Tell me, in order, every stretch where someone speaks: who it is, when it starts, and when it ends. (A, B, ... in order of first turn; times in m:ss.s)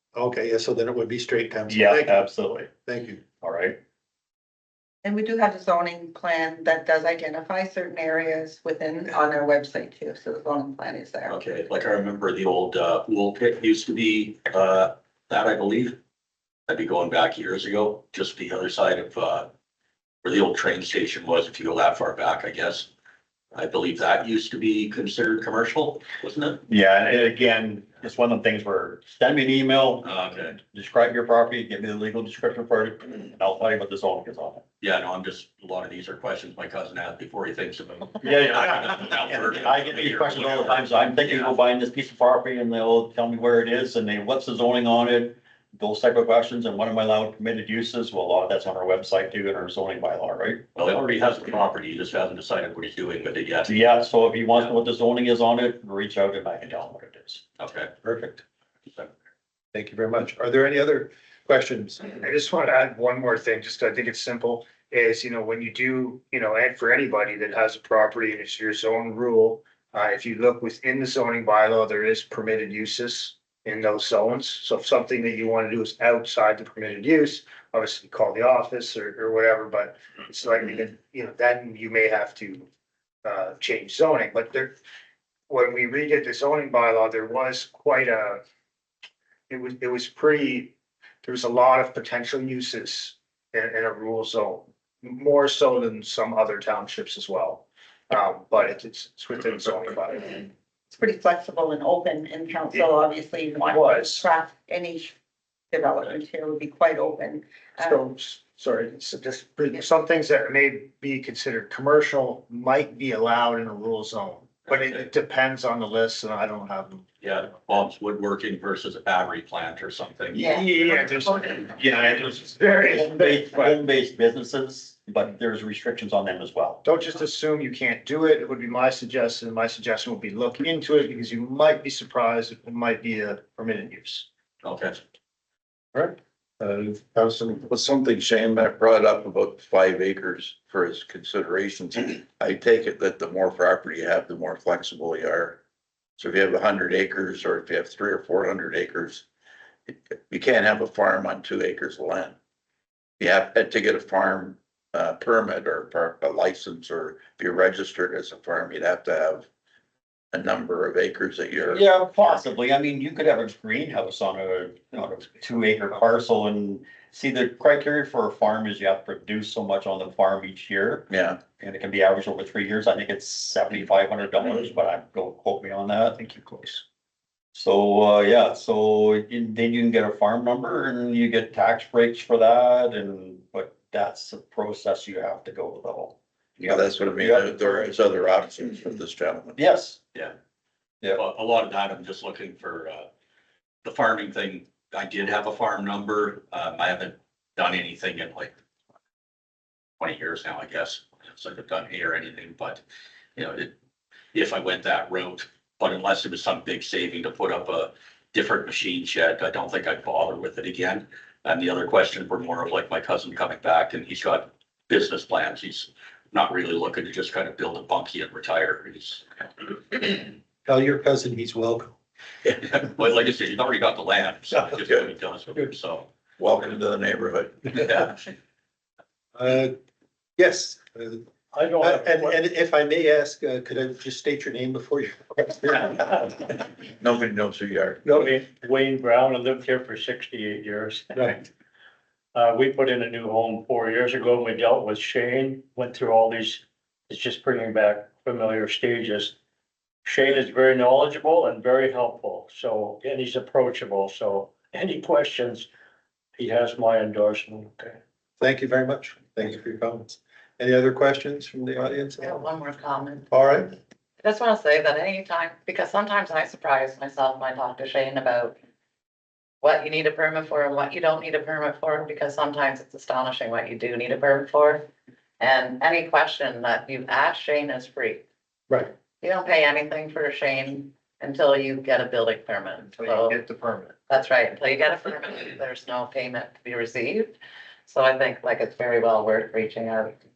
0:00.1-0:02.2 A
0:01.7-0:02.8 B
0:02.9-0:03.2 A
0:03.3-0:03.8 B
0:05.0-0:11.3 C
0:11.3-0:16.0 D
0:16.7-0:19.5 D
0:20.2-0:22.9 D
0:23.5-0:26.6 D
0:26.7-0:34.6 B
0:30.0-0:30.6 D
0:34.8-0:41.6 D
0:38.2-0:50.7 B
0:50.8-0:53.7 D
0:53.6-0:57.4 B
0:57.6-0:57.9 D
0:58.0-0:58.4 A
0:59.7-1:02.2 A
1:02.2-1:22.7 E
1:23.2-1:24.8 E
1:25.5-1:28.4 E
1:29.5-1:40.5 E
1:40.9-1:45.2 C
1:43.7-1:44.3 E
1:45.7-1:48.0 C
1:47.8-1:57.0 E
1:57.2-2:00.5 D
2:00.4-2:03.7 E
2:01.9-2:06.8 B
2:06.8-2:14.3 E
2:14.6-2:15.0 D
2:15.9-2:17.6 A
2:17.7-2:25.6 F
2:26.2-2:29.2 F
2:29.9-2:32.4 F
2:33.2-2:39.5 F
2:40.3-2:41.8 F
2:41.7-2:56.2 B
2:51.1-2:51.4 F
2:56.2-2:56.8 E
2:57.5-3:07.9 B
3:06.6-3:09.6 F
3:09.6-3:10.0 B
3:11.1-3:13.1 D
3:13.8-3:18.5 D
3:20.0-3:22.8 D
3:23.4-3:23.7 D
3:24.3-3:39.2 D
3:40.6-3:42.0 A
3:42.5-3:46.1 D
3:46.4-3:47.9 F
3:47.9-3:48.2 D
3:49.4-3:49.7 A
3:50.4-3:56.4 A
3:51.5-3:52.4 G
3:56.8-3:58.1 F
3:58.0-3:58.4 A
3:58.1-4:01.5 G
4:02.4-4:09.4 G
4:10.0-4:15.7 G
4:16.4-4:18.0 G
4:18.4-4:22.4 A
4:22.2-4:23.3 H
4:23.3-4:23.8 A
4:24.2-4:28.6 H
4:29.6-4:34.8 H
4:35.4-4:38.2 H
4:39.2-4:43.4 H
4:43.0-4:44.0 E
4:44.1-4:47.4 H
4:47.9-4:50.2 H